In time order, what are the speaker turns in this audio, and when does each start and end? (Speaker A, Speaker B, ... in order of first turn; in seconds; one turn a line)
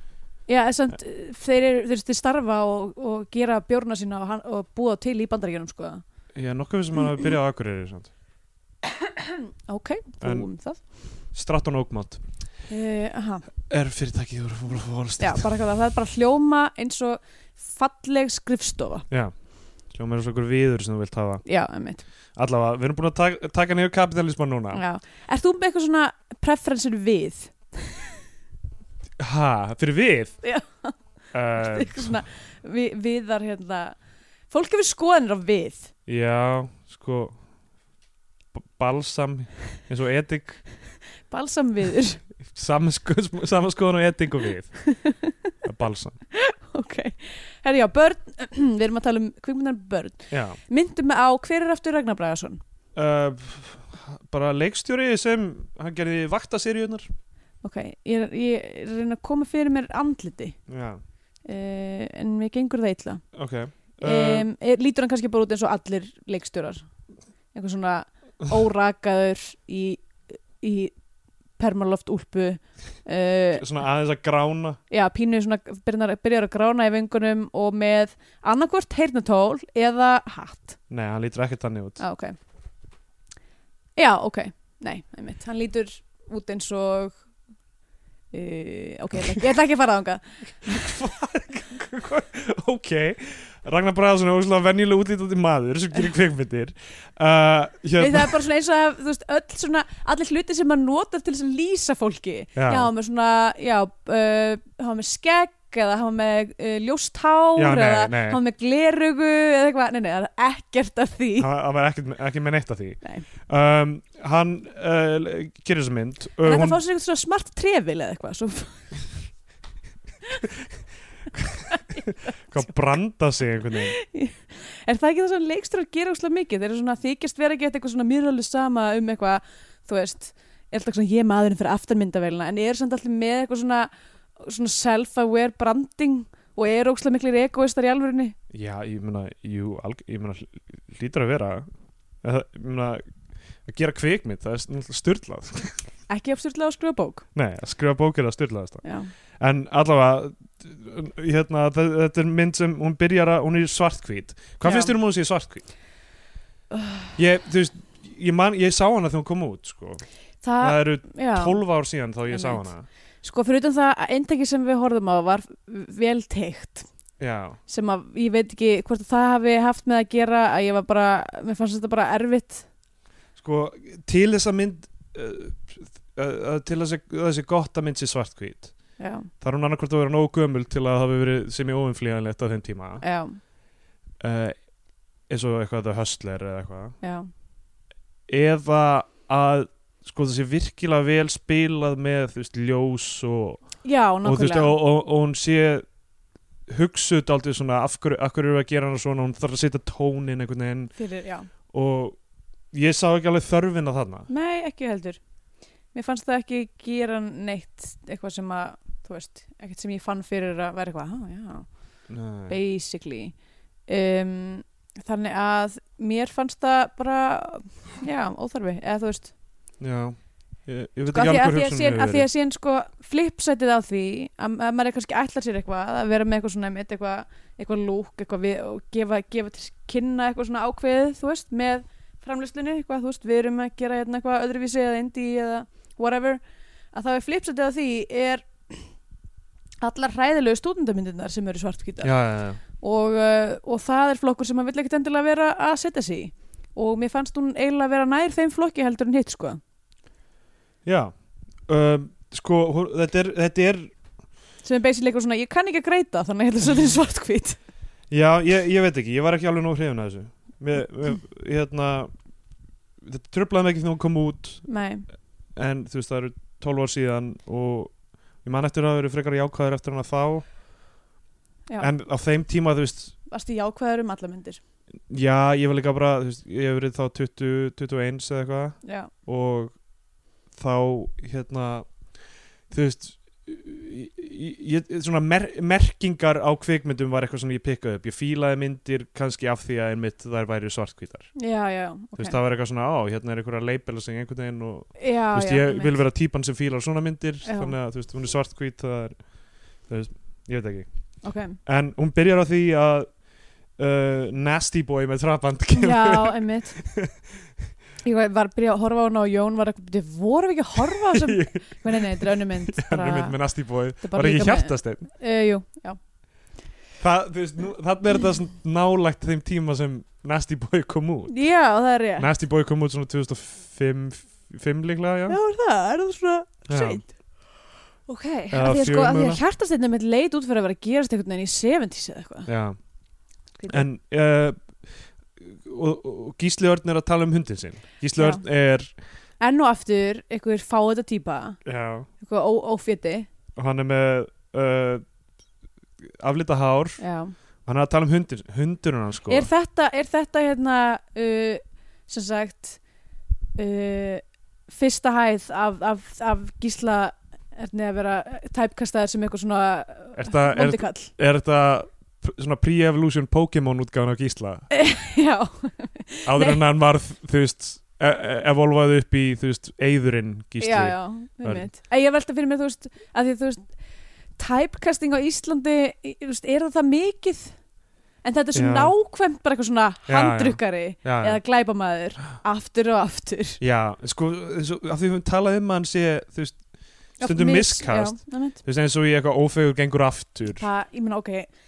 Speaker A: 0.5-6.0
Speaker B: 6.3-8.1
Speaker A: 8.8-10.8
Speaker B: 10.2-10.5
Speaker B: 11.3-12.2
Speaker A: 12.7-13.4
Speaker B: 13.7-15.5
Speaker A: 15.2-19.1
Speaker B: 19.9-21.4
Speaker A: 21.4-22.0
Speaker B: 22.4-24.8
Speaker A: 24.7-28.0
Speaker B: 29.2-30.3
Speaker A: 30.4-30.9
Speaker B: 31.3-32.2
Speaker A: 31.5-34.0
Speaker A: 34.5-35.9
Speaker B: 36.1-37.4
Speaker B: 38.5-40.6
Speaker A: 41.3-42.2
Speaker B: 42.4-44.8
Speaker A: 44.9-45.4
Speaker B: 45.6-46.2
Speaker A: 46.3-52.6
Speaker B: 50.3-50.6
Speaker B: 52.9-57.1
Speaker A: 57.6-60.6
Speaker B: 60.7-61.0
Speaker A: 61.4-63.2
Speaker B: 63.3-64.5
Speaker A: 64.0-66.9
Speaker A: 67.5-70.9
Speaker A: 71.6-73.6
Speaker B: 73.5-74.8
Speaker A: 74.9-80.8
Speaker B: 80.9-82.0
Speaker A: 82.0-82.3
Speaker A: 84.0-87.2
Speaker A: 88.3-90.2
Speaker B: 90.6-98.4
Speaker A: 98.0-111.5
Speaker B: 102.5-102.9
Speaker B: 107.5-108.4
Speaker B: 111.4-116.8
Speaker A: 116.4-118.9
Speaker B: 121.3-123.9
Speaker A: 121.7-122.0
Speaker A: 124.0-138.3
Speaker B: 138.5-141.7
Speaker B: 142.2-143.0
Speaker B: 143.7-145.8
Speaker A: 146.1-147.2
Speaker B: 147.3-148.8
Speaker A: 148.8-149.1
Speaker B: 149.4-155.6
Speaker A: 154.6-154.9
Speaker B: 157.2-160.0
Speaker A: 160.4-161.6
Speaker B: 160.6-162.9
Speaker A: 162.3-162.6
Speaker A: 163.2-166.9
Speaker B: 167.2-167.6
Speaker A: 167.7-172.7
Speaker B: 173.4-178.7
Speaker A: 179.0-179.3
Speaker B: 179.4-183.0
Speaker A: 183.0-183.4
Speaker B: 184.2-184.6
Speaker B: 185.3-186.9
Speaker A: 187.0-187.3
Speaker B: 188.3-193.6
Speaker A: 193.8-194.8
Speaker B: 194.2-195.8
Speaker B: 196.7-200.9
Speaker A: 201.0-201.5
Speaker B: 201.7-202.2
Speaker B: 202.7-204.3
Speaker A: 204.3-205.2
Speaker A: 205.9-211.7
Speaker B: 212.1-212.6
Speaker A: 212.5-213.3
Speaker A: 213.9-219.3
Speaker B: 219.8-222.3
Speaker A: 221.1-236.4
Speaker A: 236.9-238.9
Speaker A: 239.8-242.1
Speaker B: 242.0-242.6
Speaker A: 242.8-249.6
Speaker B: 250.8-251.1
Speaker B: 251.7-253.9
Speaker A: 254.6-257.6
Speaker B: 258.1-262.1
Speaker B: 263.0-264.6
Speaker A: 264.7-265.1
Speaker B: 265.6-270.4
Speaker B: 271.8-273.1
Speaker A: 273.3-274.6
Speaker B: 275.1-279.7
Speaker A: 278.8-279.1
Speaker B: 280.6-281.9
Speaker B: 282.7-291.3
Speaker A: 291.4-292.4
Speaker B: 292.1-299.2
Speaker A: 295.0-296.0
Speaker A: 297.4-297.8
Speaker B: 299.9-300.9
Speaker A: 301.2-301.6
Speaker B: 301.6-303.2
Speaker B: 303.8-307.1
Speaker A: 305.7-306.8
Speaker A: 308.0-313.4
Speaker B: 311.1-315.1
Speaker A: 314.0-316.0
Speaker B: 317.0-321.4
Speaker A: 321.3-322.3
Speaker B: 322.2-325.4
Speaker A: 325.3-327.1
Speaker B: 326.7-327.0
Speaker A: 328.1-332.5
Speaker B: 328.5-329.4
Speaker B: 332.5-332.8
Speaker B: 333.7-334.7
Speaker B: 335.4-338.9
Speaker A: 339.4-341.6
Speaker B: 341.6-342.1
Speaker A: 342.2-343.3
Speaker B: 343.6-345.0
Speaker B: 346.0-347.0
Speaker A: 347.0-347.3
Speaker B: 347.6-349.5
Speaker A: 349.3-352.8
Speaker A: 353.6-361.1
Speaker B: 360.2-364.7
Speaker A: 364.7-366.6
Speaker B: 366.2-371.7
Speaker A: 370.6-373.7
Speaker A: 374.4-377.6
Speaker A: 378.2-383.6
Speaker B: 378.5-378.9
Speaker B: 380.1-381.4
Speaker B: 383.6-386.6
Speaker A: 387.2-388.6
Speaker B: 387.2-390.6
Speaker A: 390.6-391.5